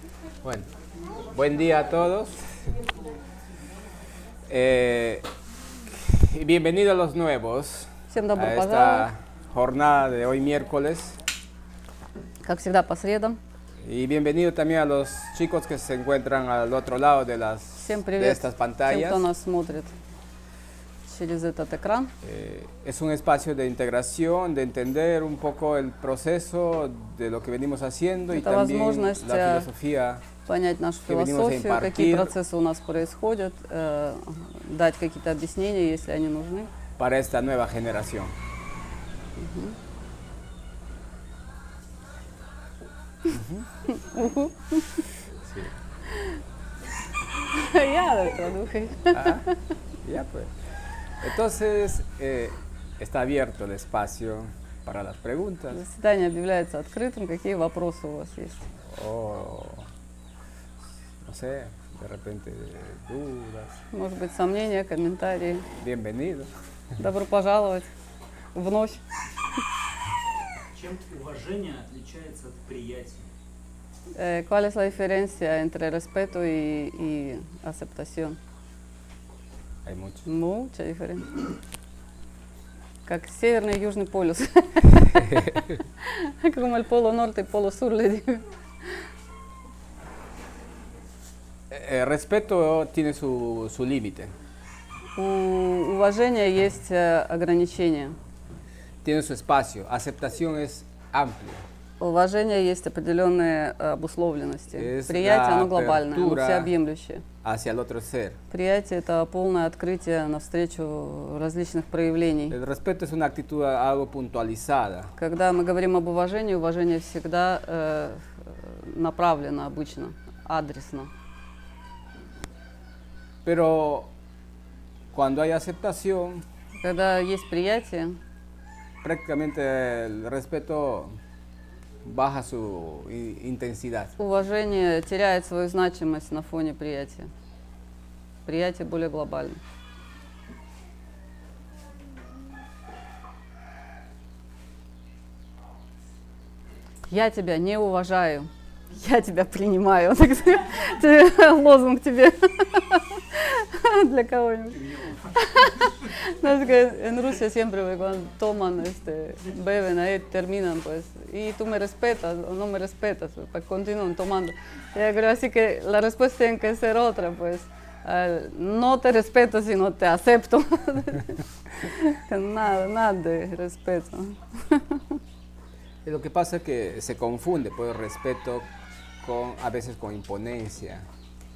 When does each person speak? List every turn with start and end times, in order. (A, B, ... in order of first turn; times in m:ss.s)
0:00.4-0:00.7 A
0:01.2-0:02.8 A
0:04.5-0:05.2 A
0:05.9-0:11.2 A
0:08.1-0:09.1 B
0:12.4-0:13.4 B
0:13.8-0:19.3 A
0:17.8-0:19.9 B
0:21.1-0:22.1 B
0:22.2-0:30.2 A
0:28.3-0:29.7 B
0:30.4-0:36.7 B
0:31.0-0:32.3 A
0:37.0-0:38.3 A
0:39.4-0:39.8 B
0:43.3-0:43.7 A
0:43.9-0:45.0 B
0:45.3-0:45.7 A
0:46.1-0:46.4 B
0:47.5-0:49.5 B
0:49.1-0:49.4 A
0:50.0-0:50.5 A
0:51.2-0:55.8 A
0:55.7-0:58.7 B
0:58.9-0:59.8 A
1:01.2-1:03.8 A
1:03.9-1:05.6 B
1:05.8-1:06.5 A
1:07.0-1:07.9 B
1:08.5-1:09.0 B
1:10.7-1:13.3 C
1:14.1-1:18.4 B
1:19.8-1:20.2 A
1:20.2-1:21.4 B
1:23.0-1:29.0 B
1:25.1-1:25.6 A
1:31.7-1:34.3 A
1:35.2-1:38.2 B
1:39.0-1:41.6 A
1:42.0-1:47.2 B
1:44.7-1:46.7 A
1:47.4-1:48.4 A
1:48.5-1:52.5 B
1:52.5-1:55.1 A
1:55.2-2:01.1 B
2:03.4-2:04.1 A
2:05.1-2:06.4 A
2:06.8-2:08.2 B
2:09.0-2:11.1 A
2:12.0-2:14.1 A
2:14.2-2:17.3 B
2:18.4-2:19.6 B
2:27.1-2:34.8 B
2:34.7-2:35.3 C
2:35.4-2:55.2 B
2:56.0-2:58.7 A
2:59.2-3:01.0 A